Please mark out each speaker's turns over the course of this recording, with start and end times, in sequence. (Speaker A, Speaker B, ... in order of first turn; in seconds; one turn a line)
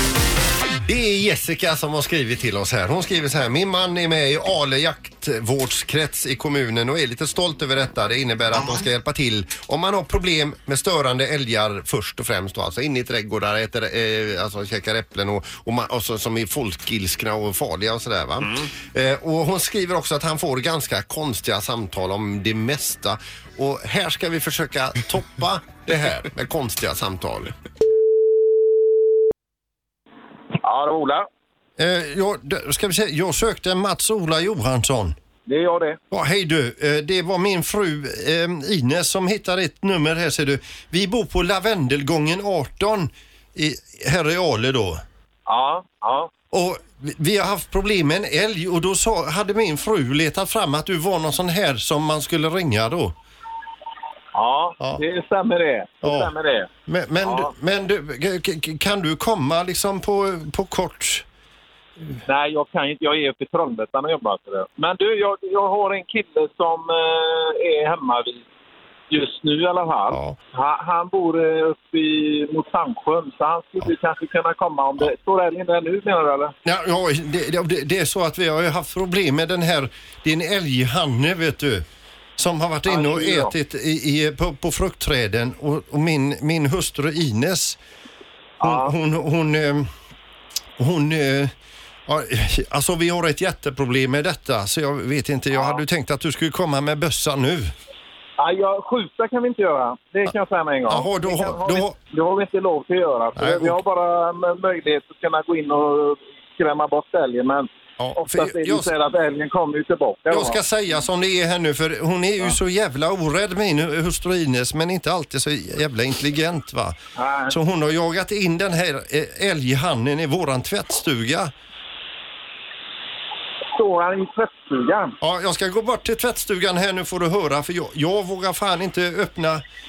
Speaker A: 0.8-27.5
Speaker B: 30.6-31.3
Speaker A: 31.8-35.2
Speaker B: 35.5-36.0
Speaker A: 36.1-45.0
Speaker B: 45.5-46.3
Speaker A: 46.5-53.1
Speaker B: 54.3-57.5
Speaker A: 56.0-56.3
Speaker A: 56.9-61.2
Speaker B: 62.2-68.4
Speaker B: 69.1-76.5
Speaker A: 70.1-70.4
Speaker A: 76.6-81.8
Speaker A: 82.4-87.8
Speaker B: 82.9-83.5
Speaker B: 88.6-88.9
Speaker A: 88.6-89.9
Speaker A: 90.8-91.5
Speaker A: 92.0-97.7
Speaker B: 95.5-95.8
Speaker B: 98.4-110.6
Speaker A: 100.9-102.0
Speaker A: 103.3-103.8
Speaker A: 108.0-108.9
Speaker A: 110.3-117.0
Speaker B: 117.2-117.5
Speaker A: 117.5-121.5
Speaker B: 123.7-125.2
Speaker A: 125.2-129.6